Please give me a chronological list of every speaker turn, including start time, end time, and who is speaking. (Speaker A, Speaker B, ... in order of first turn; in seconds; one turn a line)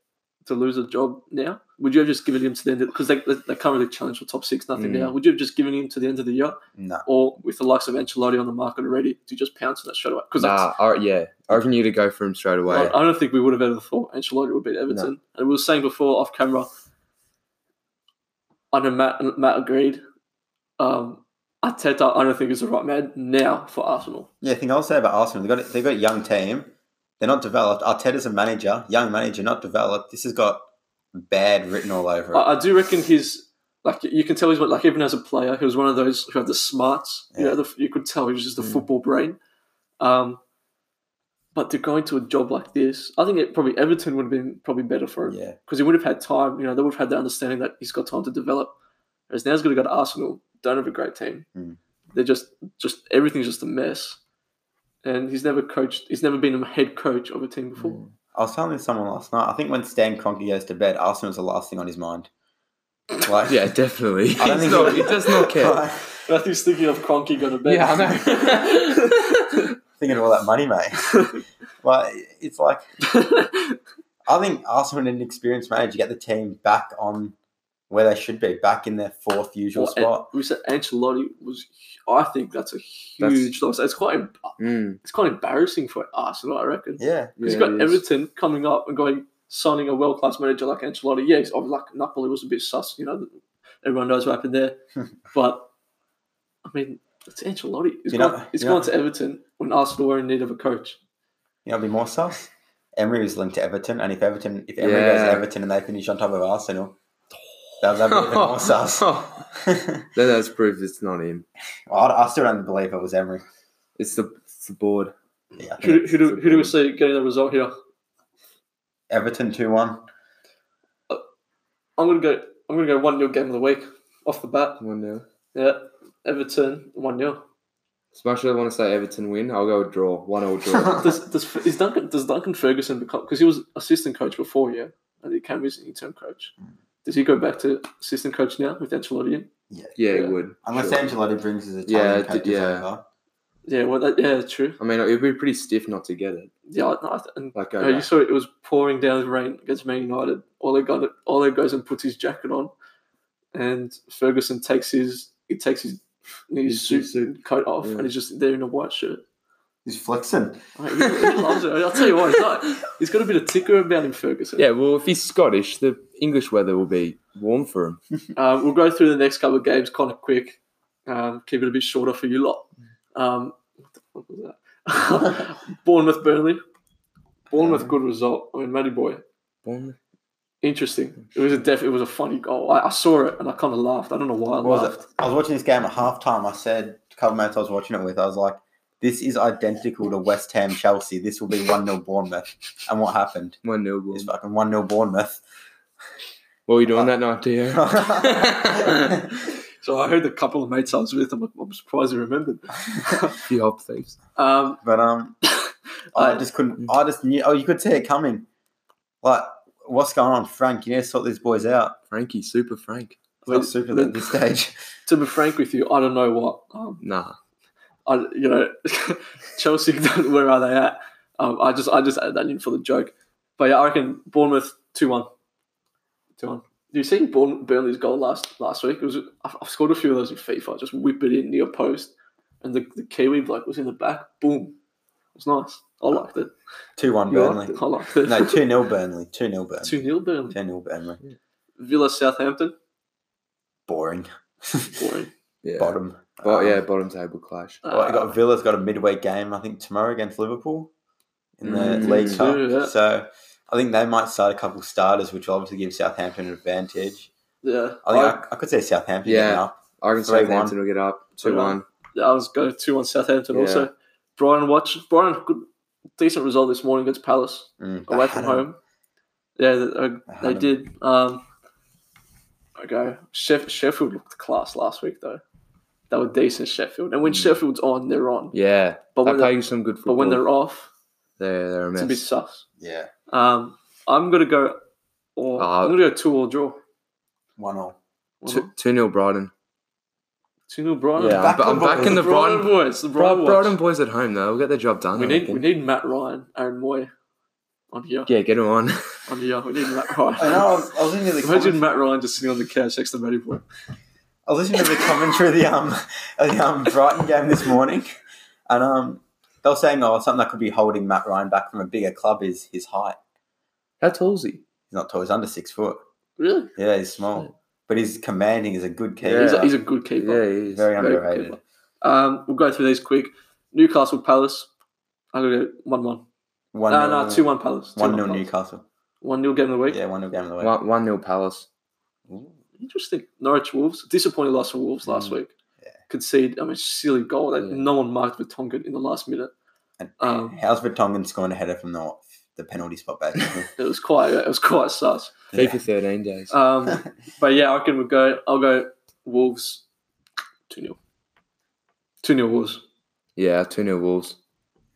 Speaker A: 0.5-10.7
Speaker B: 4.8-5.2
Speaker C: 6.8-7.0
Speaker B: 10.4-13.0
Speaker A: 12.7-16.7
Speaker A: 18.7-20.0
Speaker A: 20.8-24.3
Speaker C: 24.4-32.5
Speaker A: 32.3-39.4
Speaker C: 37.3-37.6
Speaker A: 40.0-40.4
Speaker A: 41.5-48.7
Speaker C: 45.2-45.6
Speaker A: 49.3-51.5
Speaker A: 52.1-54.2
Speaker A: 55.0-58.0
Speaker B: 57.8-58.1
Speaker C: 58.3-62.3
Speaker C: 63.2-63.7
Speaker B: 63.5-65.8
Speaker C: 64.3-66.2
Speaker A: 64.6-65.2
Speaker A: 66.2-69.7
Speaker B: 67.6-69.6
Speaker C: 70.0-71.2
Speaker C: 71.8-72.9
Speaker A: 73.1-73.8
Speaker C: 74.3-77.3
Speaker C: 77.9-80.3
Speaker A: 79.7-93.3
Speaker B: 83.2-83.5
Speaker B: 84.6-85.0
Speaker C: 87.0-87.3
Speaker B: 87.4-88.0
Speaker A: 93.8-94.8
Speaker A: 95.3-95.7
Speaker A: 96.6-101.0
Speaker C: 98.1-98.9
Speaker C: 101.6-107.0
Speaker B: 104.8-105.5
Speaker C: 107.8-110.1
Speaker B: 108.1-109.5
Speaker B: 110.1-111.5
Speaker C: 111.9-113.4
Speaker B: 114.0-115.1
Speaker C: 115.6-116.1
Speaker A: 115.8-117.7
Speaker B: 116.0-116.7
Speaker C: 119.1-120.0
Speaker A: 122.0-124.8
Speaker B: 124.8-125.2
Speaker A: 125.5-127.4
Speaker B: 128.1-131.0
Speaker C: 130.7-131.1
Speaker A: 131.0-136.5
Speaker A: 137.0-139.5
Speaker C: 139.7-140.0
Speaker B: 139.9-141.1
Speaker A: 140.1-140.3
Speaker C: 140.6-143.0
Speaker B: 141.8-142.8
Speaker A: 143.7-144.8
Speaker B: 144.8-146.5
Speaker A: 146.7-152.7
Speaker B: 147.5-148.1
Speaker A: 153.5-159.2
Speaker B: 156.7-158.1
Speaker C: 159.8-160.6
Speaker A: 160.8-164.7
Speaker B: 161.0-161.4
Speaker B: 164.6-168.0
Speaker A: 168.3-173.6
Speaker A: 174.1-176.6
Speaker C: 177.5-177.9
Speaker A: 177.5-179.2
Speaker B: 179.6-180.0
Speaker A: 180.6-185.0
Speaker C: 184.6-193.6
Speaker B: 193.6-194.3
Speaker C: 194.1-195.4
Speaker B: 196.7-199.2
Speaker C: 196.9-197.1
Speaker C: 197.7-199.2
Speaker A: 199.8-203.4
Speaker B: 203.4-204.2
Speaker A: 204.3-204.8
Speaker C: 204.8-205.4
Speaker A: 205.4-206.4
Speaker C: 206.1-208.5
Speaker C: 209.2-212.0
Speaker B: 212.1-213.2
Speaker A: 213.4-214.3
Speaker C: 213.4-214.8
Speaker A: 215.1-217.0
Speaker B: 217.0-217.4
Speaker A: 218.1-225.3
Speaker A: 226.4-234.8
Speaker A: 235.3-236.5
Speaker C: 237.0-241.2
Speaker A: 237.3-238.6
Speaker A: 239.8-240.6
Speaker A: 241.8-242.7
Speaker C: 243.9-245.0
Speaker A: 245.0-245.3
Speaker B: 245.6-247.8
Speaker C: 245.8-246.8
Speaker A: 247.8-248.3
Speaker C: 247.9-250.9
Speaker C: 251.6-257.3
Speaker B: 251.6-252.5
Speaker A: 251.9-252.9
Speaker A: 257.6-258.4
Speaker C: 258.0-260.8
Speaker B: 259.2-261.8
Speaker A: 261.4-265.7
Speaker B: 263.5-263.9
Speaker A: 266.2-268.8
Speaker C: 267.8-268.6
Speaker A: 269.6-271.4
Speaker C: 270.3-270.7
Speaker A: 272.8-275.4
Speaker A: 276.1-278.6
Speaker B: 277.3-277.5
Speaker B: 278.5-280.4
Speaker A: 279.2-280.9
Speaker B: 281.4-282.2
Speaker A: 281.9-282.6
Speaker C: 282.8-283.1
Speaker A: 283.3-284.8
Speaker A: 285.4-286.8
Speaker B: 285.6-286.0
Speaker C: 287.6-288.0
Speaker A: 288.4-288.7
Speaker B: 288.5-289.5
Speaker A: 290.7-293.7
Speaker B: 291.2-295.6
Speaker C: 291.3-292.3
Speaker A: 295.1-297.1
Speaker A: 297.9-298.3
Speaker B: 298.3-299.1
Speaker A: 299.3-300.9
Speaker C: 300.4-301.8
Speaker A: 301.4-303.6
Speaker C: 304.5-308.1
Speaker C: 308.7-313.2
Speaker B: 314.0-314.6
Speaker C: 314.9-316.0
Speaker A: 316.4-316.7
Speaker C: 316.8-319.7
Speaker B: 319.2-320.9
Speaker A: 319.4-324.7
Speaker C: 320.7-321.6
Speaker A: 325.3-326.2
Speaker C: 326.7-328.8
Speaker A: 326.9-328.4
Speaker A: 329.2-330.0
Speaker C: 329.9-330.8
Speaker B: 330.6-331.7
Speaker C: 332.3-332.6
Speaker A: 332.8-335.5
Speaker B: 335.1-335.4
Speaker A: 336.1-339.5
Speaker B: 337.6-337.9
Speaker C: 340.0-343.7
Speaker A: 340.2-340.6
Speaker A: 343.8-345.4
Speaker C: 345.5-345.8
Speaker B: 345.5-346.5
Speaker A: 346.5-349.8
Speaker A: 350.7-351.0
Speaker A: 352.2-352.8
Speaker B: 353.4-354.4